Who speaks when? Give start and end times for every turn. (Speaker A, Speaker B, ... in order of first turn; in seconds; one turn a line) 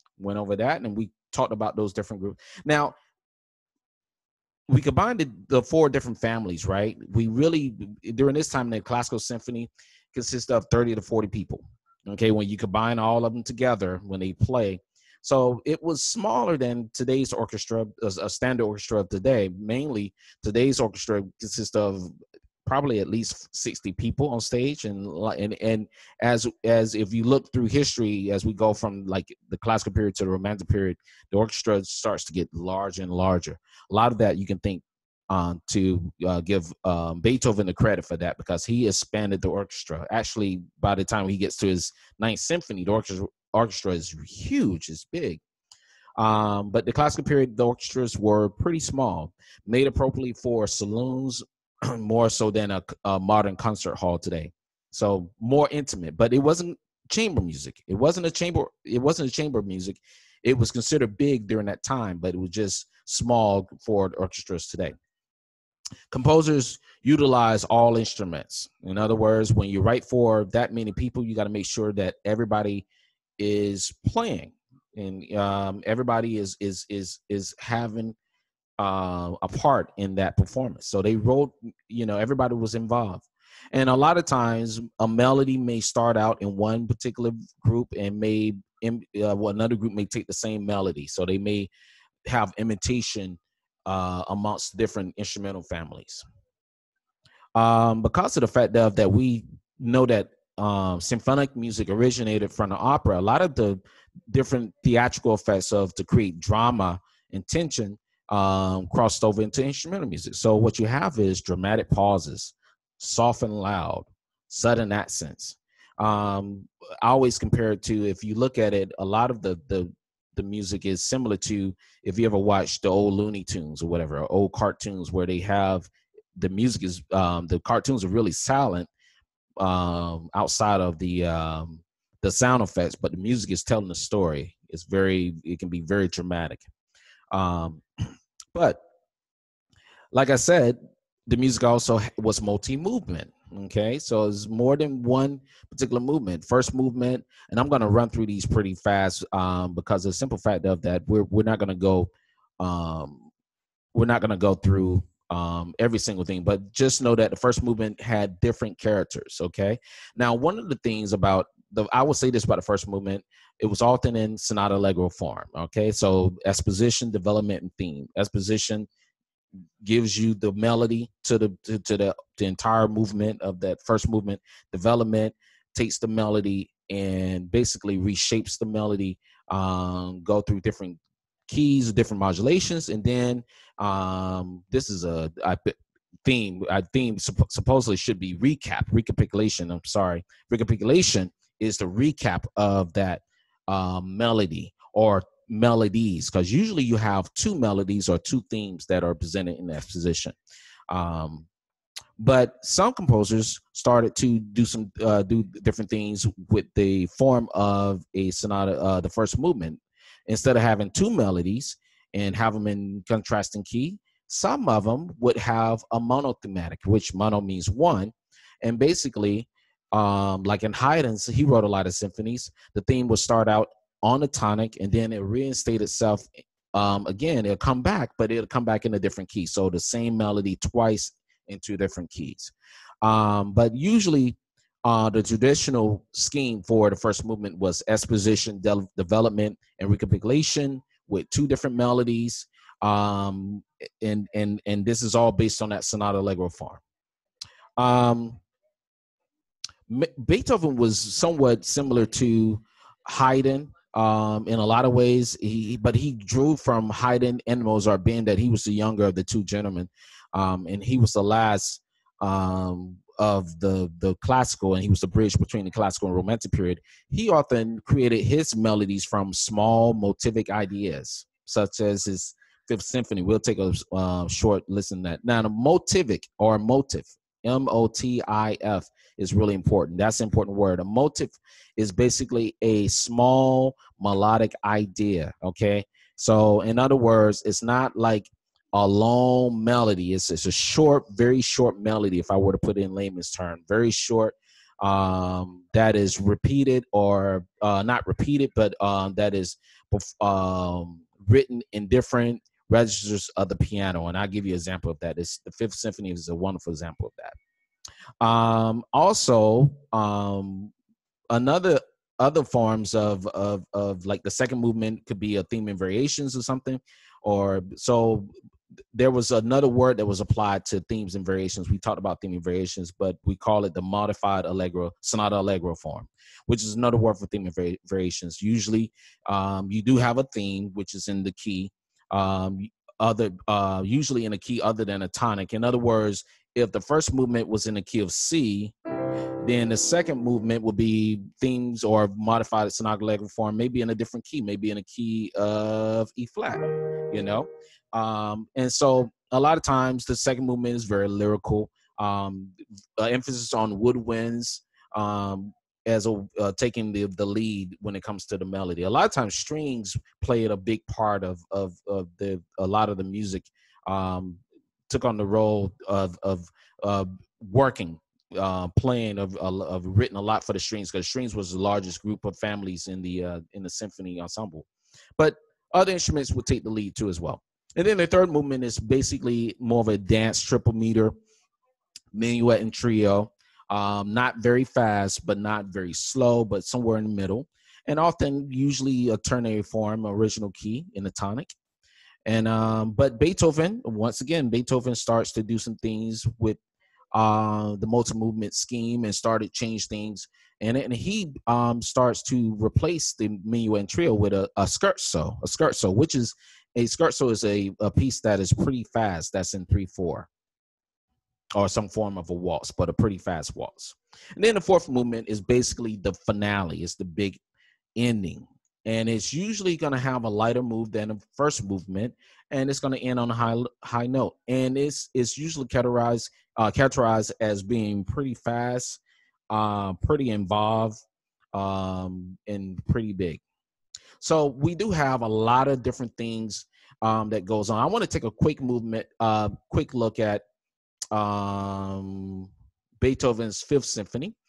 Speaker A: 0.2-3.0
Speaker A: 4.7-22.1
Speaker A: 22.6-45.4
Speaker A: 46.2-65.0
Speaker A: 66.1-72.8
Speaker A: 73.4-78.2
Speaker A: 78.8-91.7
Speaker A: 92.2-96.2
Speaker A: 97.5-128.9
Speaker A: 129.6-136.6
Speaker A: 137.3-137.8
Speaker A: 138.5-138.8
Speaker A: 140.1-153.3
Speaker A: 153.9-168.9
Speaker A: 169.8-200.3
Speaker A: 200.9-201.5
Speaker A: 202.2-246.8
Speaker A: 247.8-248.4
Speaker A: 249.9-307.4
Speaker A: 308.2-310.7
Speaker A: 311.3-318.3
Speaker A: 318.9-338.7
Speaker A: 339.4-381.1
Speaker A: 382.1-391.5
Speaker A: 392.2-396.6
Speaker A: 397.1-410.3
Speaker A: 411.5-417.4
Speaker A: 417.9-429.0
Speaker A: 429.5-431.0
Speaker A: 431.5-433.4
Speaker A: 434.2-440.4
Speaker A: 441.1-444.4